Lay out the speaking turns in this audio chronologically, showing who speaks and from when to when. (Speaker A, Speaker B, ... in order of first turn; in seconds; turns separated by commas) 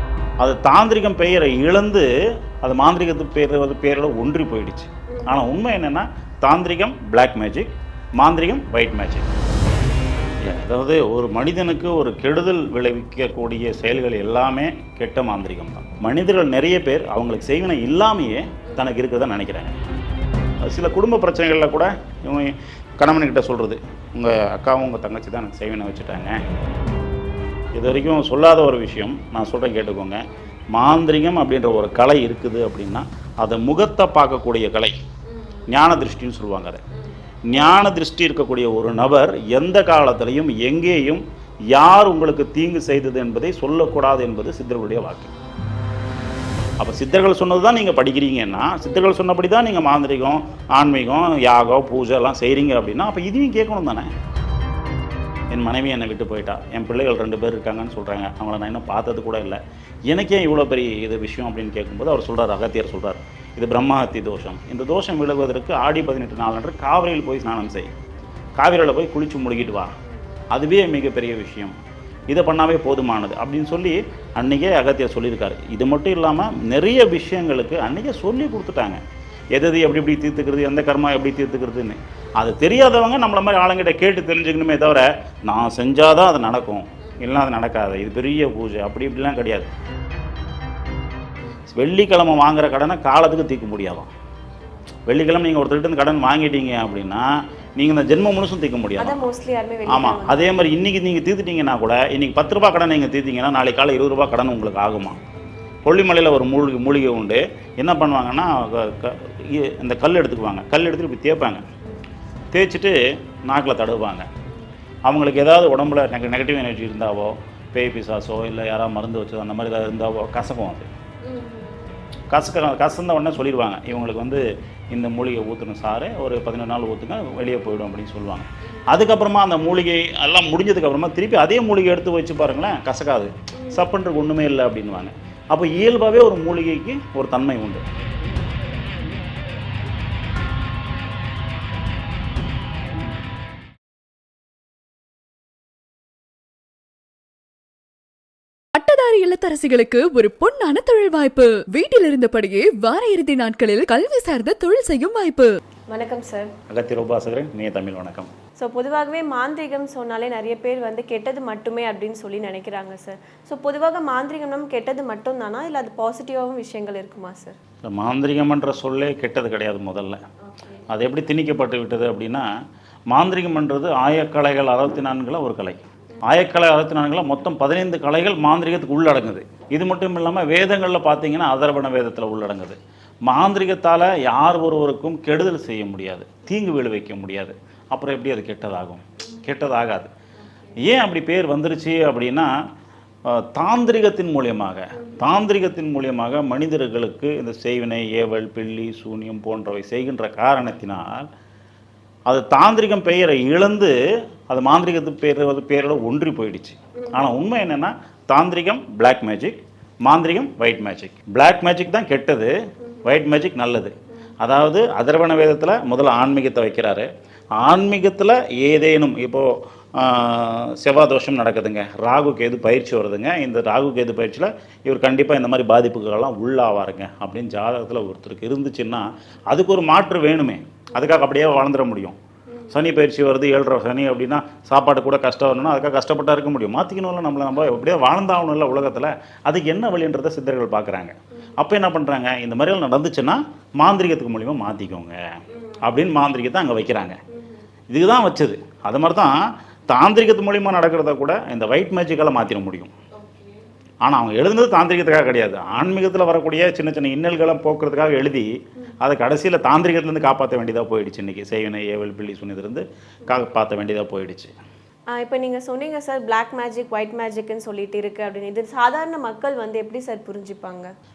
Speaker A: 0.4-2.1, Speaker A: 2.6-9.3, Speaker A: 10.4-19.8, Speaker A: 20.6-26.4, Speaker A: 27.7-34.9, Speaker A: 35.7-36.8, Speaker A: 37.4-45.3, Speaker A: 46.8-54.1, Speaker A: 55.5-67.9, Speaker A: 68.6-69.9, Speaker A: 70.5-71.7, Speaker A: 72.3-79.0, Speaker A: 79.5-89.7, Speaker A: 91.7-94.1, Speaker A: 95.1-99.3, Speaker B: 99.0-100.4, Speaker A: 99.9-105.2, Speaker A: 105.8-111.6, Speaker A: 112.5-114.3, Speaker A: 115.1-120.9, Speaker B: 121.3-121.7, Speaker A: 122.3-137.8, Speaker C: 148.7-155.6, Speaker B: 155.9-156.5, Speaker A: 156.7-158.3, Speaker B: 158.6-167.6, Speaker A: 167.8-170.2, Speaker A: 170.9-172.5, Speaker A: 173.1-190.1, Speaker A: 190.8-192.5, Speaker A: 193.2-201.3, Speaker A: 202.3-203.9, Speaker A: 204.5-232.2, Speaker A: 232.7-245.2, Speaker A: 245.8-247.2, Speaker A: 247.9-249.4, Speaker A: 249.9-252.9, Speaker B: 253.2-253.6, Speaker A: 254.0-264.5, Speaker B: 265.1-270.9